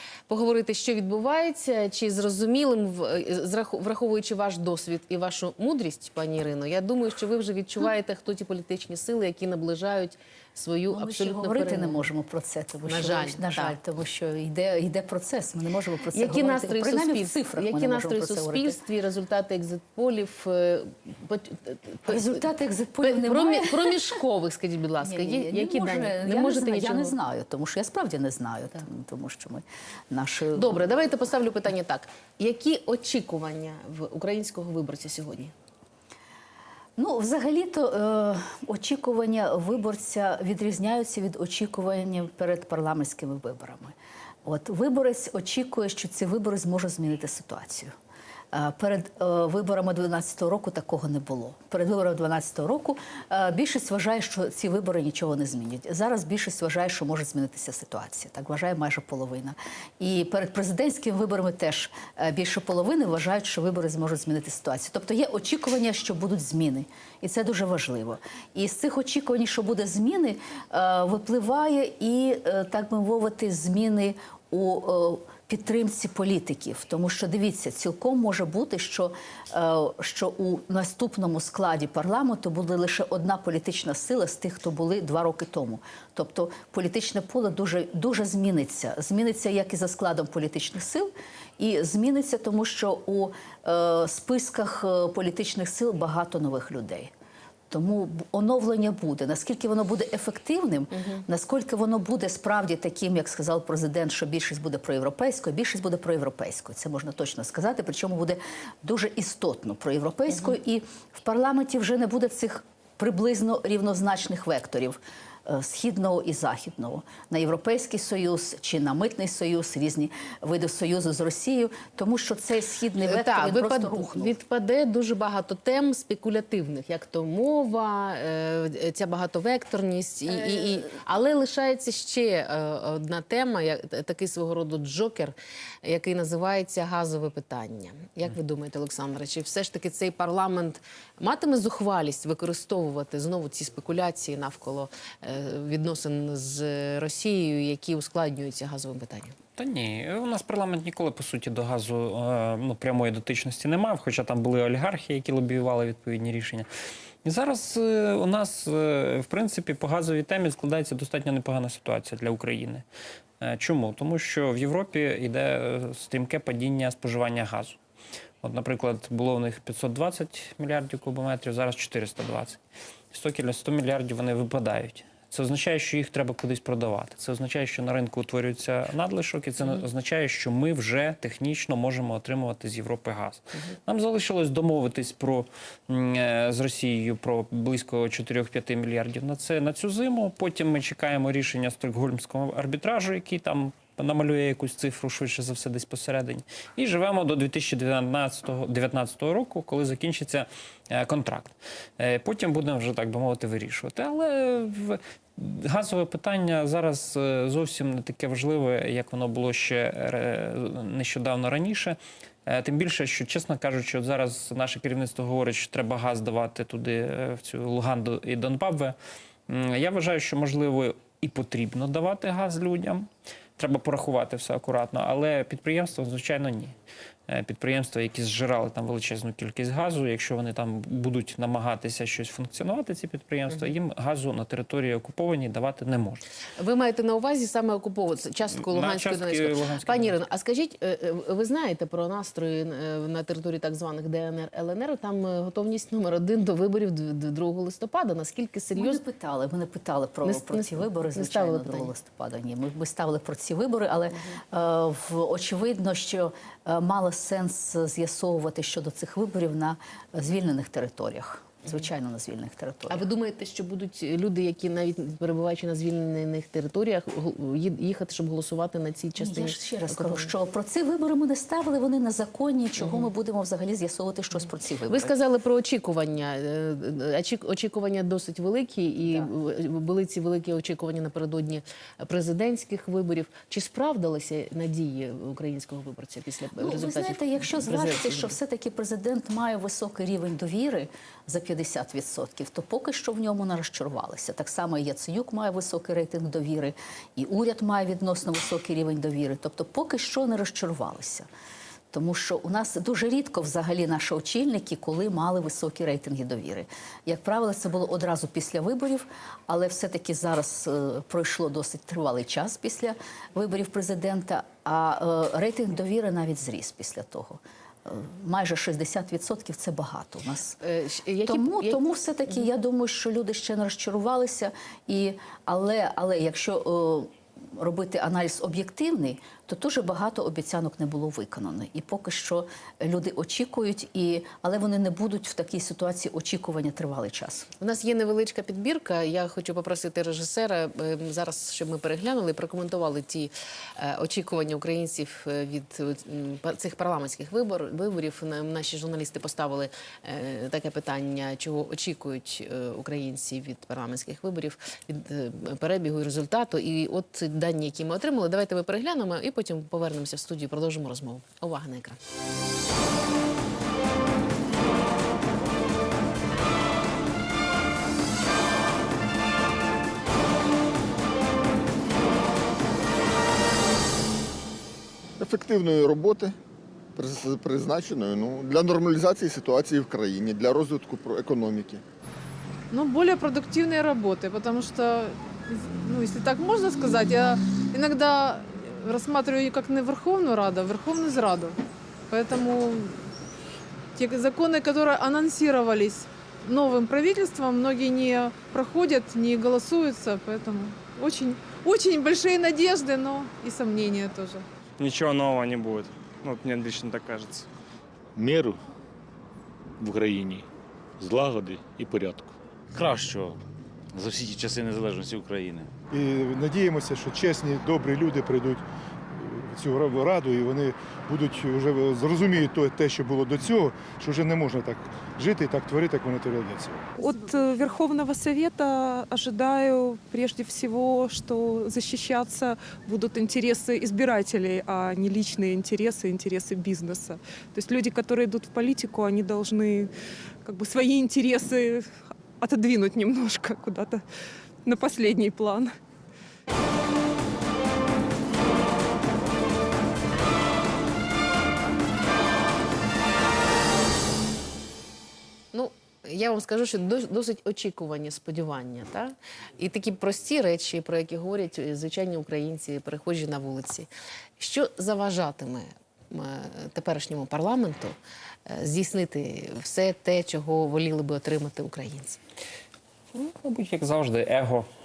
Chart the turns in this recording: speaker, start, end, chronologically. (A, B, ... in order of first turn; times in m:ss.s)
0:00.3-0:12.1 A
0:10.9-0:18.8 B
0:12.8-0:13.8 A
0:16.1-0:22.4 A
0:22.0-0:24.1 B
0:23.0-0:27.1 A
0:25.0-0:30.8 B
0:30.5-0:35.5 A
0:37.0-0:47.9 B
0:48.5-1:37.1 B
1:37.7-2:04.4 B
1:40.9-1:41.2 A
2:03.0-2:29.4 A
2:10.3-2:10.9 B
2:29.6-2:36.7 C
2:37.2-2:42.8 C
2:43.4-2:47.8 C
2:48.4-2:52.6 C
2:53.1-3:39.0 C
3:39.5-3:43.1 C
3:43.6-3:46.7 C
3:47.3-3:56.2 C
3:56.6-4:09.0 A
3:58.5-4:00.2 C
4:08.7-4:23.1 B
4:10.2-4:11.9 A
4:22.9-4:30.3 A
4:29.2-4:35.1 B
4:32.8-4:33.1 A
4:34.9-4:48.3 A
4:46.6-5:01.3 B
5:01.9-5:20.6 B
5:20.6-5:21.8 A
5:21.2-5:37.5 B
5:37.6-6:02.0 A
6:15.2-6:16.3 D
6:17.0-6:21.8 D
6:22.7-6:31.6 E
6:32.1-6:33.0 E
6:34.0-6:44.4 E
6:44.8-6:47.5 F
6:48.2-6:48.6 G
6:49.8-6:50.5 G
6:51.0-6:52.4 G
6:52.7-6:53.4 H
6:53.9-6:55.7 H
6:55.9-7:06.9 I
7:07.0-7:19.9 J
7:20.4-7:24.0 J
7:24.6-7:25.7 J
7:35.5-7:52.2 A
7:53.1-7:54.7 C